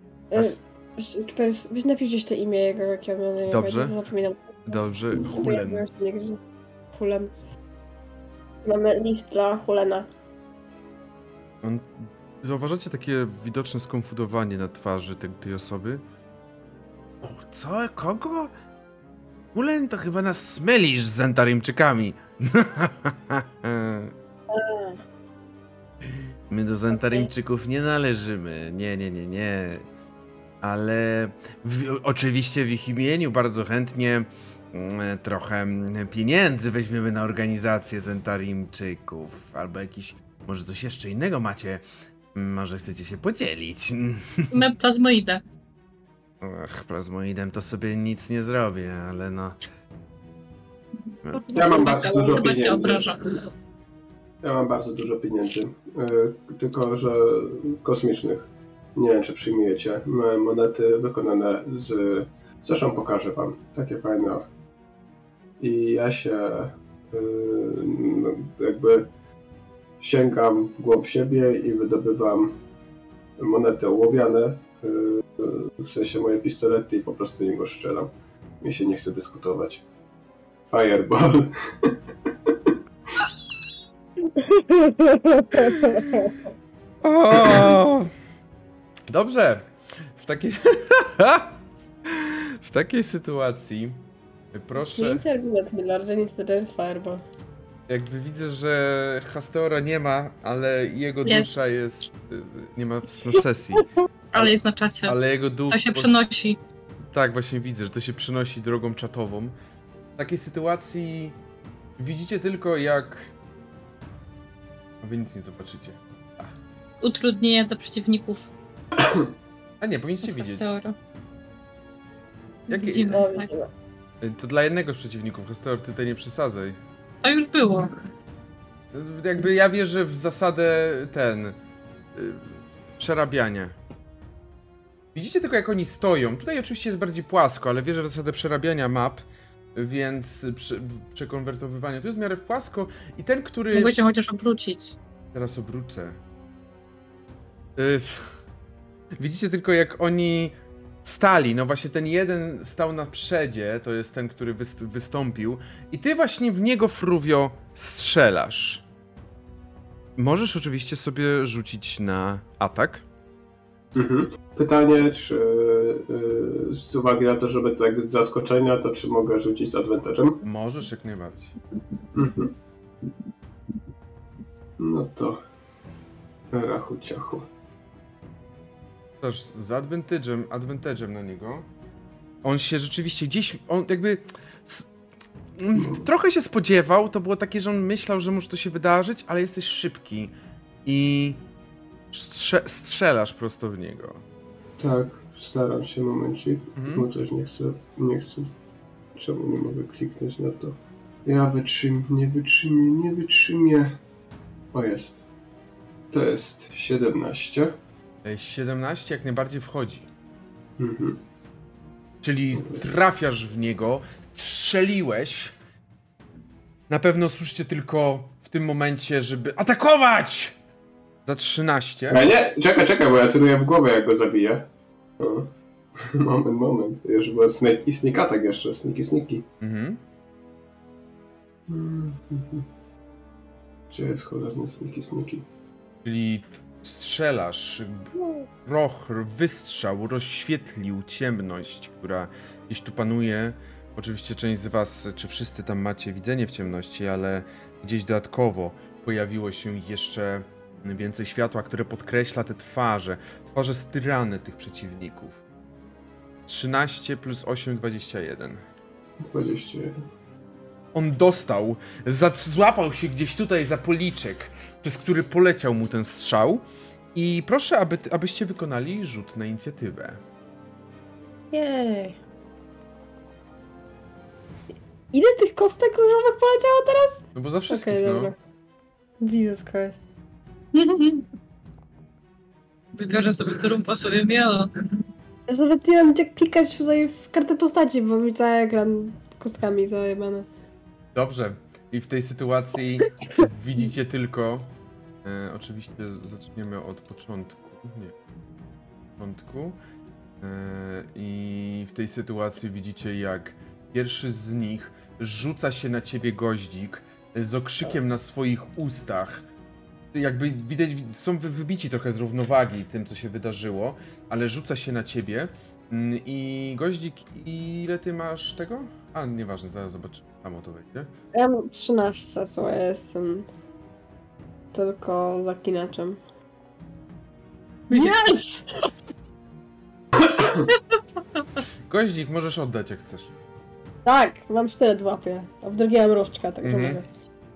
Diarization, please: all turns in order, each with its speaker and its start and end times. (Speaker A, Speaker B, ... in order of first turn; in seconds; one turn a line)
Speaker A: 0.3-6.4
Speaker B: 0.3-0.6
Speaker B: 3.5-4.0
Speaker B: 4.7-5.8
Speaker A: 6.9-7.3
Speaker A: 8.6-10.1
Speaker B: 11.6-16.0
Speaker B: 17.2-18.5
Speaker B: 19.5-24.1
Speaker A: 24.5-25.0
Speaker B: 26.5-29.9
Speaker A: 26.9-27.3
Speaker B: 30.6-41.8
Speaker B: 42.3-44.5
Speaker C: 44.5-45.4
Speaker B: 46.4-49.6
Speaker B: 51.2-51.7
Speaker C: 51.3-53.5
Speaker D: 51.5-53.0
Speaker A: 52.1-53.0
Speaker D: 54.4-64.5
Speaker D: 65.6-69.1
Speaker D: 70.0-72.6
Speaker D: 73.4-78.1
Speaker D: 78.6-79.8
Speaker D: 80.7-83.3
Speaker A: 84.3-86.4
Speaker B: 87.0-88.1
Speaker D: 87.4-87.8
Speaker B: 89.1-94.0
Speaker B: 94.5-95.2
Speaker A: 94.8-97.2
Speaker B: 97.9-104.5
Speaker C: 101.2-101.6
Speaker C: 104.3-105.2
Speaker B: 105.0-106.2
Speaker C: 105.7-106.6
Speaker B: 107.1-109.5
Speaker B: 110.2-111.4
Speaker B: 112.0-113.3
Speaker B: 115.0-116.5
Speaker C: 117.0-118.5
Speaker D: 119.0-119.3
Speaker B: 119.8-120.7
Speaker C: 120.2-121.0
Speaker B: 122.7-123.2
Speaker C: 122.7-123.5
Speaker A: 123.1-123.7
Speaker B: 124.2-126.8
Speaker C: 127.2-128.0
Speaker B: 128.9-131.6
Speaker B: 132.2-133.8
Speaker B: 135.1-139.2
Speaker B: 139.8-143.9
Speaker C: 143.7-145.0
Speaker B: 145.3-146.2
Speaker B: 147.8-148.3
Speaker B: 149.2-158.8
Speaker B: 160.2-163.1
Speaker D: 163.9-170.4
Speaker B: 170.4-171.6
Speaker D: 172.1-172.5
Speaker D: 174.8-175.4
Speaker D: 176.5-177.5
Speaker B: 179.2-181.7
Speaker B: 182.4-184.9
Speaker B: 185.6-190.3
Speaker D: 185.8-186.1
Speaker B: 190.8-191.4
Speaker B: 192.1-194.2
Speaker D: 194.8-198.5
Speaker B: 196.8-197.1
Speaker D: 199.2-204.0
Speaker D: 204.7-205.2
Speaker D: 206.1-207.8
Speaker B: 208.2-210.1
Speaker D: 210.8-211.2
Speaker B: 212.2-215.5
Speaker B: 216.9-220.6
Speaker B: 221.3-222.3
Speaker D: 222.1-224.7
Speaker D: 225.2-229.4
Speaker B: 229.6-230.0
Speaker D: 231.7-232.7
Speaker D: 233.9-235.5
Speaker B: 236.0-255.4
Speaker B: 256.5-258.6
Speaker D: 259.2-260.1
Speaker B: 260.9-270.2
Speaker A: 271.5-272.2
Speaker A: 275.1-278.4
Speaker B: 277.4-278.3
Speaker A: 279.2-280.0
Speaker C: 280.7-281.3
Speaker C: 283.0-284.9
Speaker A: 285.5-290.5
Speaker B: 291.1-294.7
Speaker B: 295.2-298.1
Speaker B: 299.2-299.8
Speaker B: 300.4-309.5
Speaker B: 310.1-321.1
Speaker A: 321.3-323.5
Speaker A: 324.7-326.2
Speaker A: 327.9-328.9
Speaker D: 330.4-330.6
Speaker B: 331.9-333.3
Speaker A: 334.1-337.1
Speaker B: 336.6-337.0